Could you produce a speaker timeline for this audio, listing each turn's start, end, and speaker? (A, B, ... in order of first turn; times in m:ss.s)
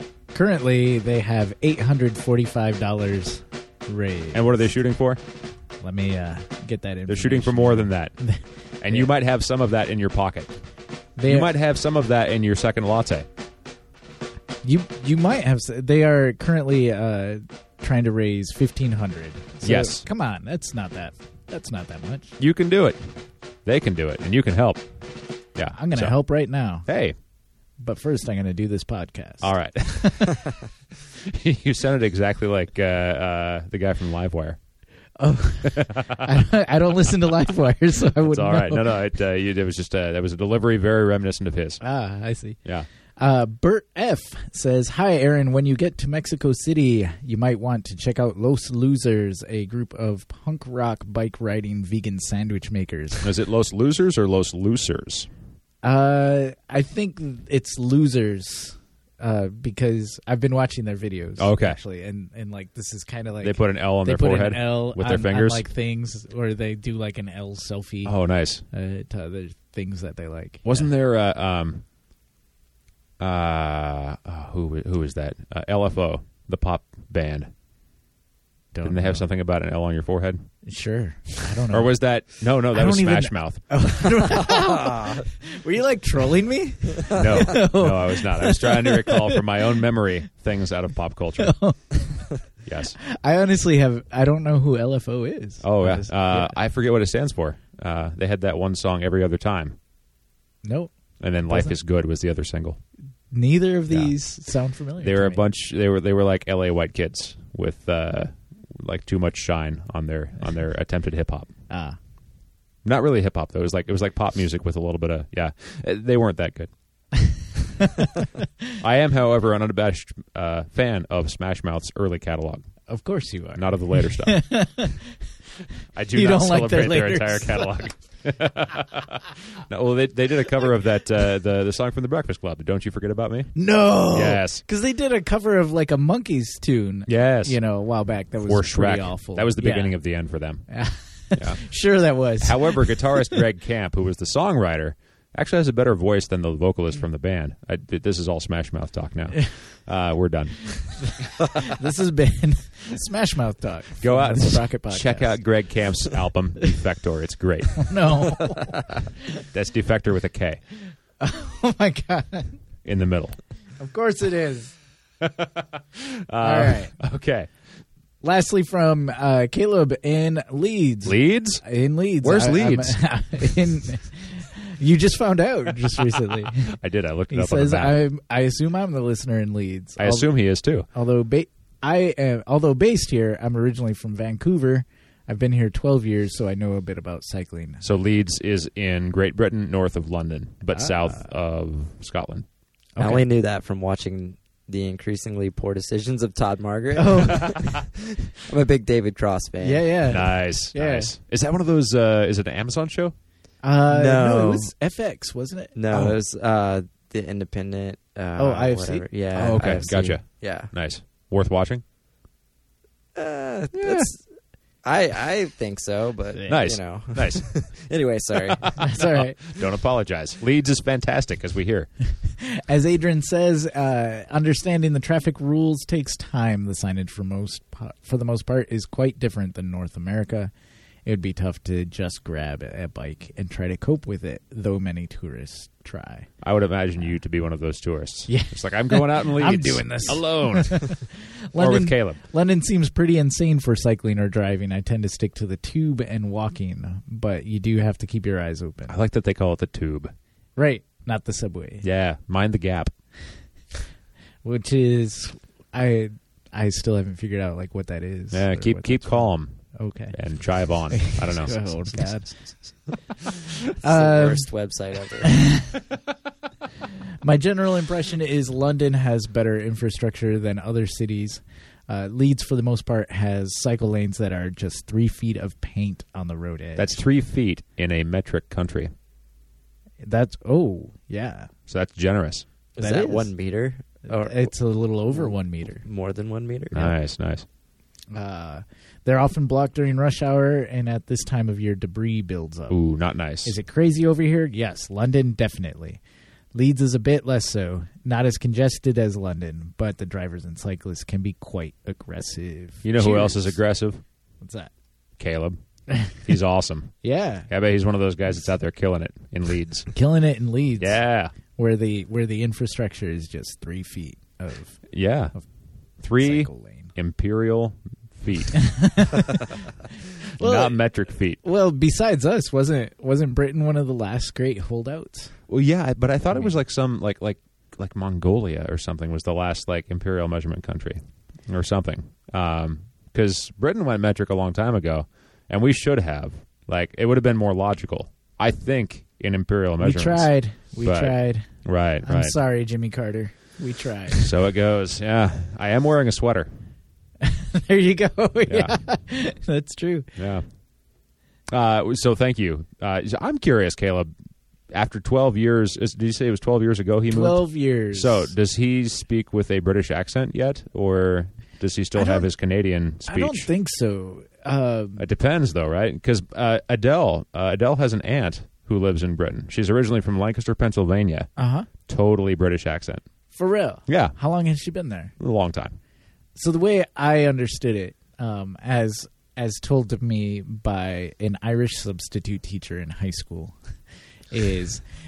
0:00.3-0:04.5 A
0:04.3-0:05.2 B
0:05.8-0:09.1 A
0:07.1-0:08.2 B
0:08.8-0:10.5 B
0:11.2-0:11.5 A
0:11.2-0:13.3 B
0:14.6-0:22.4 A
0:19.6-0:20.0 B
0:22.4-0:23.0 B
0:23.6-0:24.8 B
0:25.6-0:26.1 B
0:25.7-0:26.9 A
0:26.9-0:27.2 B
0:27.8-0:29.5 A
0:29.4-0:30.6 B
0:31.1-0:34.6 B
0:35.2-0:39.0 A
0:35.6-0:36.3 B
0:38.3-0:41.8 B
0:41.8-0:42.6 A
0:43.2-0:53.3 A
0:53.2-0:55.3 B
0:55.8-1:08.1 A
1:01.4-1:01.8 B
1:03.4-1:05.6 B
1:08.0-1:08.6 B
1:08.7-1:10.9 A
1:10.6-1:11.8 B
1:13.2-1:17.5 B
1:18.7-1:19.2 A
1:18.8-1:20.5 B
1:20.6-1:21.9 A
1:21.7-1:23.6 B
1:22.7-1:29.7 A
1:27.1-1:31.6 B
1:31.4-1:32.3 A
1:32.6-1:33.0 B
1:33.0-1:36.6 A
1:35.6-1:39.8 B
1:40.6-1:40.9 A
1:41.2-1:42.8 B
1:41.5-1:41.7 A
1:43.3-1:45.4 A
1:43.9-1:44.1 B
1:45.0-1:51.5 B
1:51.7-1:52.0 A
1:52.8-1:56.7 B
1:57.8-1:58.3 A
1:58.8-2:02.7 B
2:02.9-2:05.2 A
2:03.5-2:04.5 B
2:05.9-2:13.5 B
2:06.1-2:07.7 A
2:13.5-2:20.0 A
2:14.1-2:14.6 B
2:17.1-2:17.6 B
2:18.4-2:20.6 B
2:20.7-2:23.4 A
2:21.3-2:21.6 B
2:22.4-2:31.0 B
2:31.0-2:35.3 A
2:34.0-2:38.0 B
2:37.8-2:38.9 A
2:39.5-2:40.6 B
2:41.2-2:42.6 A
2:42.8-2:43.4 B
2:43.8-2:44.7 A
2:45.2-2:47.5 B
2:46.4-2:46.9 A
2:48.2-2:56.8 A
2:51.0-2:51.6 B
2:52.2-2:53.0 B
2:56.5-2:58.0 B
2:57.3-3:00.3 A
3:00.0-3:00.8 B
3:00.9-3:07.8 A
3:07.8-3:12.5 B
3:10.7-3:11.3 A
3:13.0-3:13.2 A
3:13.0-3:20.0 C
3:17.0-3:17.6 A
3:19.6-3:21.2 A
3:20.1-3:23.1 B
3:23.6-3:26.2 A
3:23.9-3:24.7 C
3:25.7-3:30.7 C
3:28.4-3:29.9 A
3:29.4-3:31.8 B
3:33.2-3:34.2 C
3:34.8-3:38.8 C
3:36.5-3:37.5 B
3:38.5-3:41.9 B
3:38.8-3:39.4 A
3:42.2-3:50.5 A
3:51.0-3:56.3 A
3:56.4-4:02.2 B
3:58.3-4:09.0 A
4:08.9-4:10.1 B
4:10.6-4:11.8 A
4:11.8-4:12.9 B
4:14.4-4:20.2 A
4:18.3-4:19.6 B
4:20.1-4:22.1 B
4:20.9-4:22.4 A
4:23.8-4:24.4 A
4:23.8-4:25.4 C
4:25.2-4:25.8 A
4:27.2-4:37.0 A
4:36.8-4:38.9 B
4:40.0-4:41.5 A
4:41.7-4:42.4 B
4:42.8-4:44.5 C
4:42.8-4:43.3 A
4:44.1-4:45.8 A
4:45.1-4:46.9 C
4:46.7-4:47.4 B
4:48.1-4:52.8 A
4:52.7-4:53.5 B
4:53.4-4:56.0 A
4:56.5-5:03.6 A
5:02.8-5:04.0 B
5:04.4-5:04.7 A
5:05.2-5:05.6 B
5:06.2-5:06.9 B
5:07.0-5:07.5 A
5:07.5-5:09.9 B
5:09.9-5:14.8 A
5:10.8-5:11.3 B
5:14.9-5:15.3 B
5:16.0-5:19.6 B
5:16.2-5:16.9 A
5:18.5-5:19.4 A
5:20.4-5:20.8 A
5:20.4-5:21.4 B
5:21.4-5:25.4 A
5:25.5-5:42.4 B
5:39.8-5:41.5 A
5:42.0-5:44.3 A
5:44.1-5:46.5 B
5:47.2-5:50.1 A
5:48.4-5:48.8 B
5:50.2-5:50.4 B
5:51.5-5:54.1 B
5:54.7-6:03.5 B
5:57.1-5:58.3 A
6:01.9-6:02.3 A
6:03.0-6:05.0 A
6:05.0-6:11.3 B
6:11.4-6:11.7 A
6:11.8-6:13.0 B
6:13.3-6:15.1 A
6:13.9-6:14.2 B
6:15.2-6:15.8 B
6:16.4-6:23.5 A
6:24.3-6:24.8 A